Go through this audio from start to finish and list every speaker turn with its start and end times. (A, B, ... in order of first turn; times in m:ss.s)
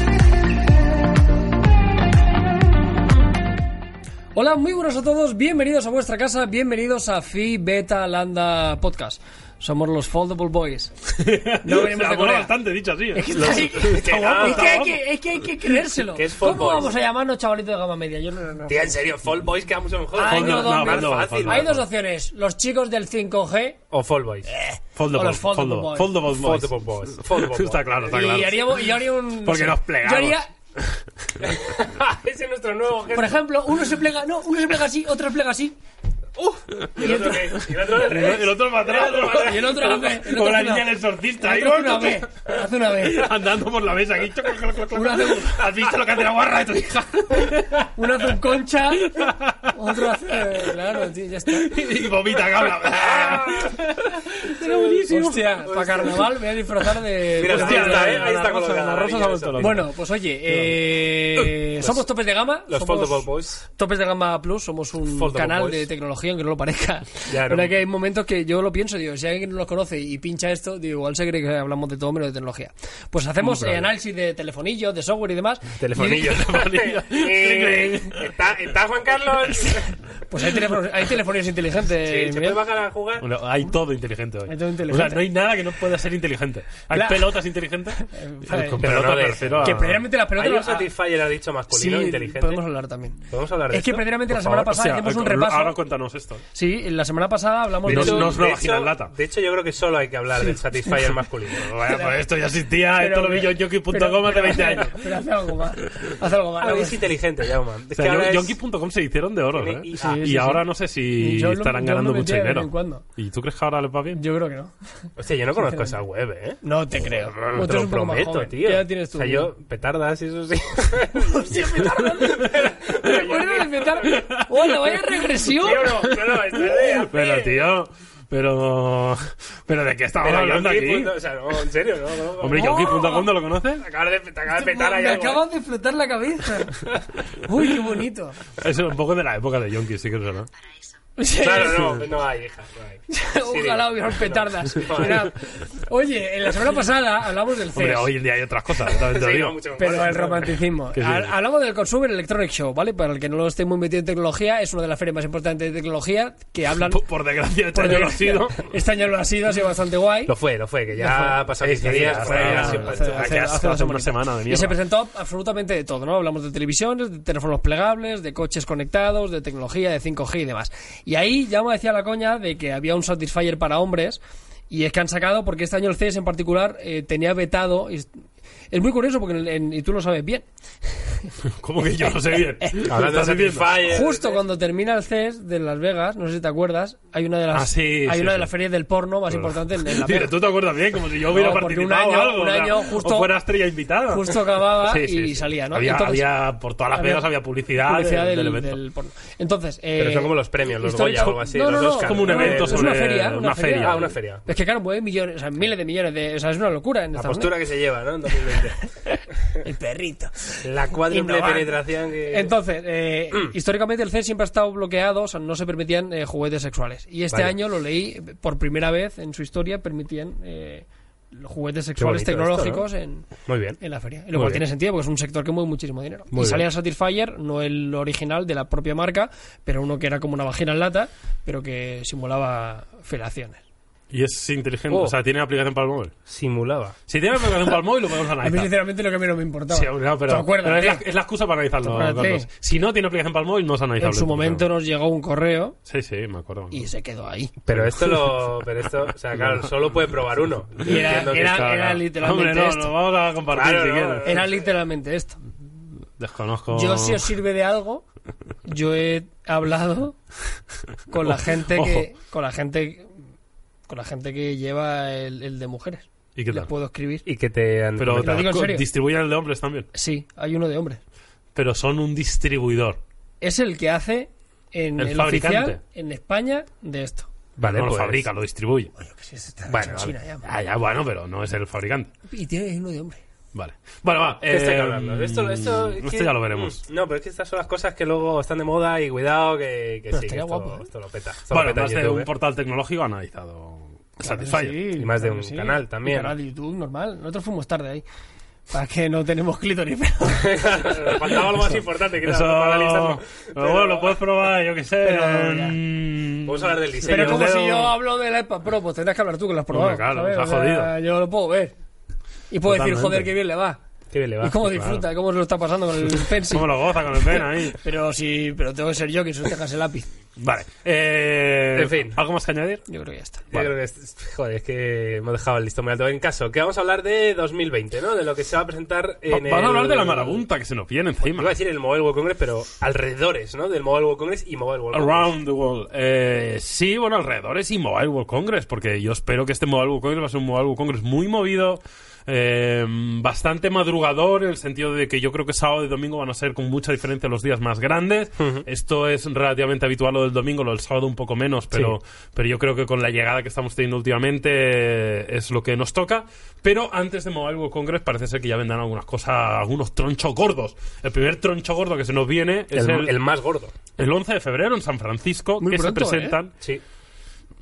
0:04.4-0:10.9 A
0:11.1-0:15.0 B
0:11.6-0:12.5 A
0:13.1-0:19.0 A
0:14.0-0:14.9 C
0:16.0-0:16.9 C
0:18.7-0:21.8 C
0:20.2-0:23.8 A
0:20.2-0:21.8 B
0:23.9-0:24.5 C
0:24.5-0:26.1 A
0:25.0-0:28.9 B
0:26.3-0:28.6 C
0:28.1-0:30.5 A
0:29.4-0:31.0 B
0:31.4-0:33.4 C
0:33.1-0:35.7 A
0:36.4-0:39.7 C
0:37.0-0:37.6 A
0:37.2-0:48.3 B
0:39.3-0:43.3 A
0:44.9-0:45.6 A
0:48.0-0:51.7 A
0:49.0-0:50.4 B
0:51.5-0:56.1 B
0:52.9-0:53.8 C
0:54.6-0:55.1 C
0:55.1-0:58.3 A
0:55.6-0:56.3 C
0:57.4-0:59.9 B
0:57.4-0:59.8 C
0:59.6-1:16.2 A
1:00.5-1:00.8 B
1:02.7-1:03.6 C
1:05.1-1:05.9 C
1:07.3-1:07.7 C
1:13.5-1:13.8 B
1:15.8-1:20.0 C
1:16.0-1:18.4 B
1:20.3-1:22.6 A
1:22.0-1:23.2 C
1:23.2-1:30.0 B
1:24.5-1:25.2 A
1:26.9-1:27.4 A
1:27.9-1:28.8 A
1:28.8-1:32.6 C
1:29.6-1:30.9 A
1:31.7-1:35.8 A
1:33.3-1:34.7 C
1:34.4-1:36.4 B
1:36.5-1:38.4 A
1:37.9-1:39.1 B
1:37.9-1:41.7 C
1:41.5-1:45.2 B
1:41.8-1:42.1 A
1:42.9-1:47.0 A
1:46.6-1:48.6 C
1:47.9-1:54.2 B
1:49.5-1:50.3 C
1:50.0-1:50.6 A
1:51.2-1:53.0 A
1:54.1-1:54.7 A
1:55.2-1:56.6 C
1:56.6-1:59.5 A
1:57.3-1:57.6 B
1:57.5-2:04.3 C
2:01.2-2:06.2 A
2:04.0-2:05.0 B
2:05.5-2:07.7 C
2:06.9-2:11.2 B
2:10.2-2:13.2 C
2:12.4-2:13.8 B
2:12.6-2:13.3 A
2:13.8-2:15.4 C
2:14.5-2:16.8 A
2:17.4-2:18.4 A
2:18.6-2:20.5 B
2:21.2-2:22.0 A
2:21.4-2:25.3 C
2:23.1-2:28.1 A
2:27.8-2:29.6 B
2:28.8-2:30.6 C
2:29.8-2:37.0 A
2:30.9-2:31.3 B
2:36.8-2:38.6 B
2:37.7-2:40.3 A
2:40.3-2:43.4 C
2:41.0-2:58.1 A
2:41.6-2:44.8 B
2:58.7-3:01.3 A
3:01.6-3:04.0 B
3:02.8-3:04.4 C
3:03.8-3:10.3 A
3:07.5-3:08.5 B
3:09.3-3:18.8 B
3:11.3-3:13.3 A
3:14.1-3:16.3 A
3:16.9-3:17.3 A
3:17.8-3:27.5 A
3:20.0-3:22.9 C
3:21.2-3:24.1 B
3:23.8-3:24.5 C
3:27.1-3:28.8 C
3:29.1-3:43.3 A
3:30.6-3:32.5 C
3:37.3-3:37.6 C
3:42.0-3:42.9 C
3:43.5-3:43.8 C
3:43.8-3:53.6 A
3:44.3-3:44.6 B
3:46.3-3:46.7 C
3:54.1-3:56.1 B
3:54.9-3:55.2 C
3:56.3-3:57.0 C
3:57.1-3:58.7 B
3:58.4-4:01.1 A
3:59.7-4:04.6 B
4:01.8-4:02.5 A
4:04.0-4:05.8 A
4:05.9-4:06.8 B
4:06.7-4:07.5 A
4:07.7-4:11.9 C
4:07.7-4:08.5 B
4:10.8-4:12.9 A
4:10.9-4:14.4 B
4:13.5-4:14.6 C
4:14.2-4:15.4 A
4:16.2-4:17.3 B
4:16.7-4:18.0 A
4:18.6-4:20.2 A
4:21.1-4:23.1 A
4:21.2-4:22.1 B
4:23.9-4:27.2 A
4:26.4-4:26.7 B
4:27.2-4:28.6 C
4:28.0-4:29.9 B
4:28.2-4:28.8 A
4:29.9-4:31.0 A
4:31.5-4:33.0 B
4:33.4-4:37.3 A
4:35.0-4:35.8 B
4:37.6-4:38.2 C
4:37.6-4:38.9 B
4:39.0-4:40.5 A
4:39.7-4:40.1 C
4:40.4-4:42.1 B
4:42.3-4:43.2 A
4:43.5-4:46.8 B
4:44.4-4:52.3 C
4:50.1-4:50.8 A
4:51.5-4:54.8 B
4:54.2-4:58.0 A
4:54.9-4:56.3 C
4:58.7-5:00.7 A
5:00.3-5:04.2 C
5:02.2-5:07.9 B
5:05.0-5:05.8 A
5:06.4-5:07.5 C
5:07.0-5:11.7 A
5:09.7-5:10.9 B
5:12.5-5:13.8 A
5:12.6-5:13.3 B
5:14.1-5:14.6 C
5:14.4-5:16.7 A
5:14.6-5:15.0 B
5:16.2-5:17.8 B
5:17.3-5:20.1 A
5:20.4-5:22.8 B
5:21.7-5:22.2 C
5:22.9-5:23.4 A
5:23.5-5:30.4 C
5:29.3-5:31.5 B
5:31.2-5:35.3 C
5:34.9-6:03.1 B
5:48.4-5:48.6 C
5:51.7-5:52.0 C
6:02.7-6:03.7 C
6:04.0-6:06.5 B
6:05.6-6:06.4 A